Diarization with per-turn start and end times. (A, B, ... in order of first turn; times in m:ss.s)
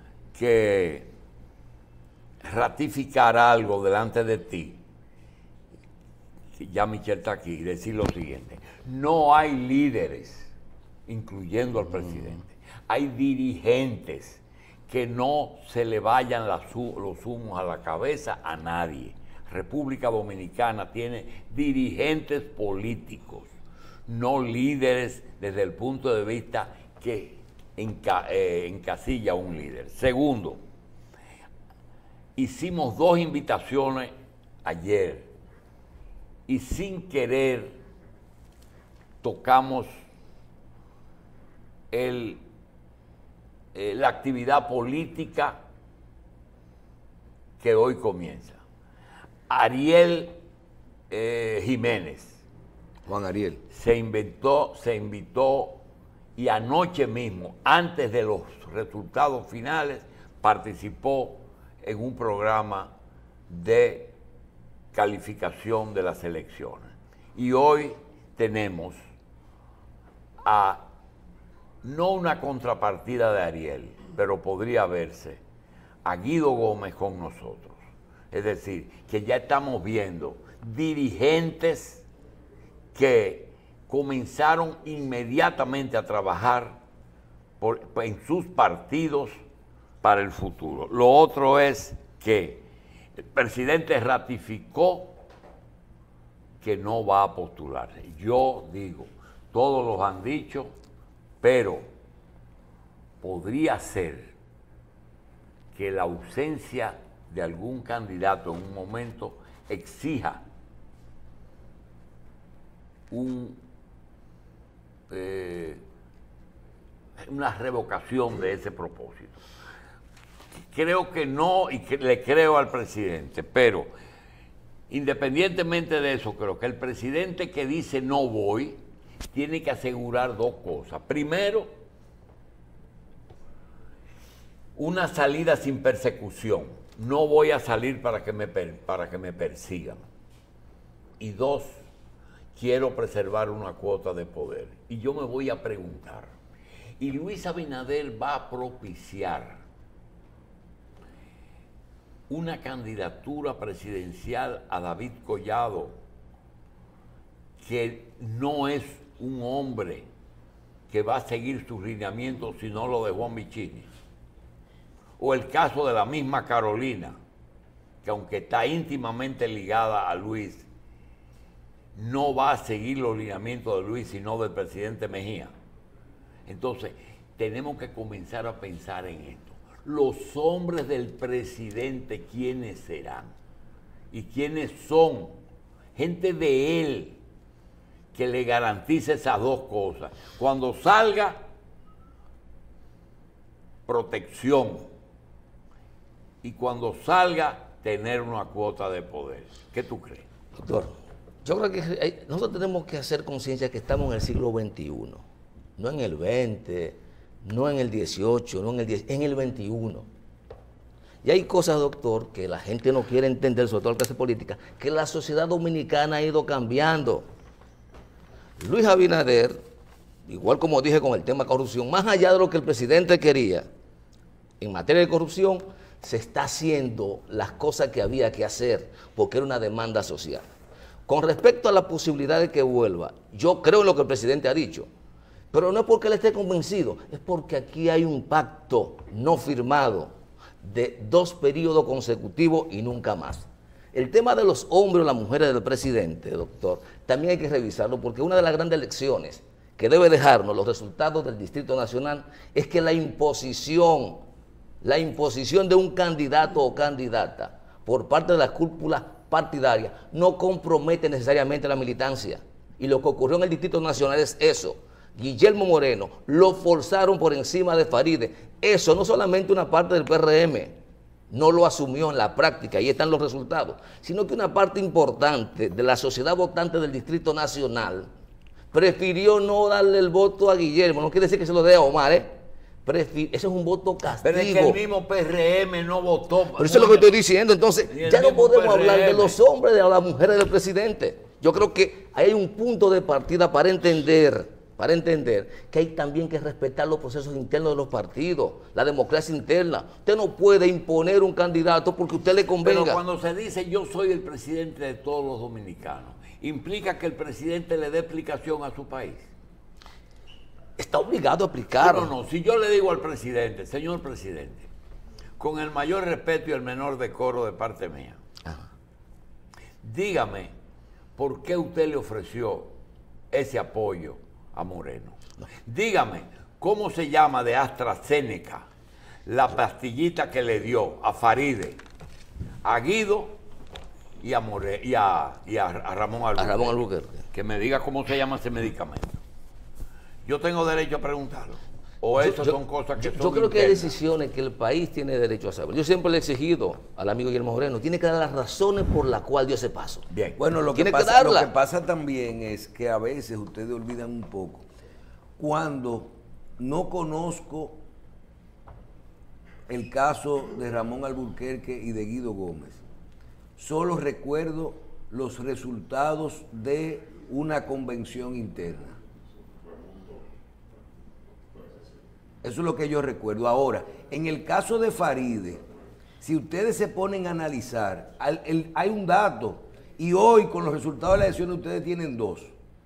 0:00.3-0:01.1 A
0:02.4-0:04.8 A
0:06.6-0:10.5 A
0:11.1-0:23.5 A
0:24.1-0:30.6 A
0:32.4-0:34.1 A
0:34.6-0:35.3 A
0:36.5-0:37.8 A
0:39.2-0:39.9 A
0:41.9-0:42.4 A
0:43.7-0:45.6 A
0:47.6-0:48.6 A
0:49.5-0:50.4 A
0:51.1-0:52.4 A
0:53.1-0:53.6 B
0:53.7-0:55.8 A
0:56.4-1:02.9 A
1:03.5-1:04.1 A
1:04.9-1:09.0 A
1:10.4-1:10.8 A
1:11.8-1:15.4 A
1:16.0-1:17.8 A
1:18.3-1:22.0 A
1:22.9-1:26.8 A
1:27.6-1:29.3 A
1:30.0-1:32.6 A
1:33.2-1:35.2 A
1:36.6-1:40.7 A
1:41.4-1:41.9 A
1:43.2-1:44.3 A
1:45.7-1:50.4 A
1:53.1-1:53.6 A
1:55.1-1:55.8 A
1:57.2-1:59.4 A
2:00.7-2:03.9 A
2:04.9-2:08.8 A
2:09.3-2:11.7 A
2:14.8-2:20.1 A
2:21.2-2:21.7 A
2:22.6-2:26.3 A
2:27.0-2:29.6 A
2:32.3-2:35.9 A
2:37.6-2:40.1 A
2:40.9-2:43.9 A
2:45.2-2:47.2 A
2:48.0-2:50.7 A
2:51.9-2:55.5 A
2:56.4-3:03.3 A
3:04.1-3:05.4 A
3:05.9-3:07.2 A
3:08.1-3:11.4 A
3:13.9-3:14.9 A
3:16.4-3:20.3 A
3:20.6-3:20.9 C
3:21.4-3:25.2 C
3:25.8-3:30.1 C
3:31.2-3:37.2 C
3:38.6-3:39.6 C
3:40.3-3:43.6 C
3:44.6-3:50.4 C
3:51.1-3:54.9 C
3:55.5-4:00.1 C
4:00.6-4:14.2 C
4:14.8-4:30.7 C
4:31.3-4:38.1 C
4:38.7-4:42.3 C
4:42.8-4:44.8 C
4:44.2-4:47.2 A
4:46.6-5:03.0 C
4:47.9-4:49.4 A
5:02.6-5:09.3 A
5:10.8-5:12.1 C
5:11.7-5:14.7 A
5:15.4-5:18.2 A
5:19.8-5:20.5 A
5:21.2-5:22.7 A
5:23.3-5:28.7 A
5:29.2-5:31.8 A
5:32.6-5:33.4 A
5:34.2-5:39.2 A
5:36.3-5:37.2 C
5:40.2-5:44.0 A
5:42.2-5:50.1 C
5:50.1-5:50.4 A
5:50.4-5:54.7 B
5:50.7-5:51.5 C
5:55.4-5:57.8 B
5:59.7-6:02.8 B
6:03.6-6:09.0 B
6:12.4-6:15.6 B
6:16.2-6:22.5 B